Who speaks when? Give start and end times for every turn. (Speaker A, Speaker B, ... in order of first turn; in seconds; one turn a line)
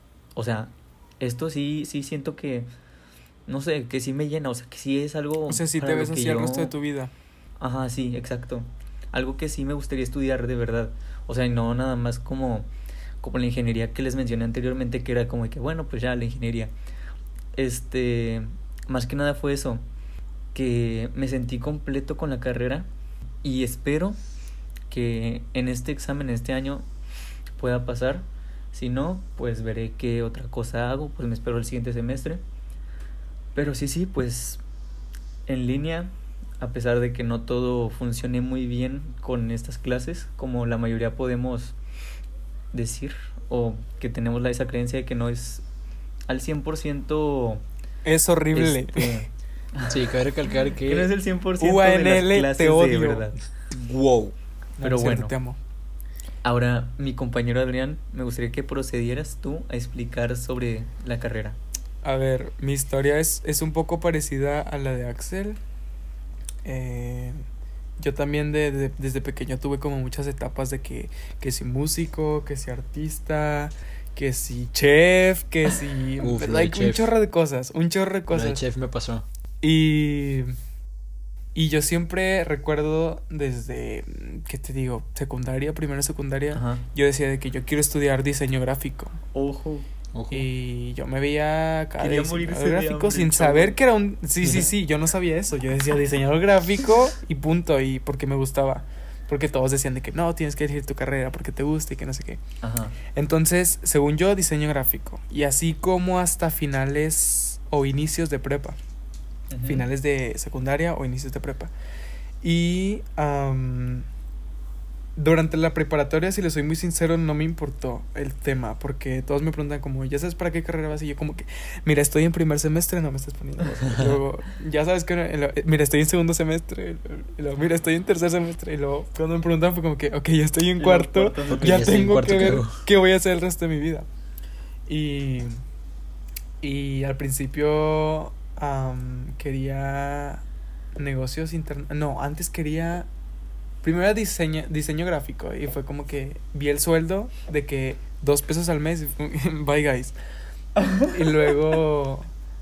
Speaker A: 0.3-2.7
Speaker A: 3.5-6.7
Speaker B: 5.5-7.1
Speaker A: 7.6-12.7
Speaker A: 13.2-16.7
Speaker A: 17.5-19.9
Speaker A: 20.5-22.9
Speaker A: 23.4-24.2
Speaker A: 24.9-26.9
Speaker A: 27.6-32.4
Speaker A: 33.5-34.6
Speaker A: 35.5-41.8
Speaker A: 42.7-45.6
Speaker A: 46.3-47.6
Speaker B: 48.0-49.3
Speaker A: 48.5-50.2
Speaker C: 49.9-51.1
Speaker A: 50.8-53.4
Speaker B: 51.6-53.3
Speaker C: 53.7-54.4
Speaker A: 54.8-55.4
Speaker B: 54.8-55.6
Speaker A: 56.4-61.6
Speaker B: 62.0-65.6
Speaker B: 66.6-67.5
Speaker B: 68.0-78.6
Speaker C: 76.2-77.1
Speaker C: 78.3-79.3
Speaker B: 79.6-80.5
Speaker B: 81.5-89.2
Speaker A: 86.5-86.8
Speaker A: 89.3-89.9
Speaker C: 90.1-90.5
Speaker B: 90.3-102.4
Speaker A: 92.0-93.8
Speaker A: 102.6-103.0
Speaker B: 103.1-108.8
Speaker A: 109.5-109.9
Speaker B: 109.7-111.7
Speaker B: 112.4-114.1
Speaker B: 115.2-134.1
Speaker C: 123.8-124.2
Speaker A: 130.8-131.9
Speaker C: 131.5-132.8
Speaker B: 134.9-135.6
Speaker B: 136.6-140.4
Speaker B: 141.0-143.1
Speaker B: 143.8-150.2
Speaker A: 150.8-151.1
Speaker B: 151.1-152.3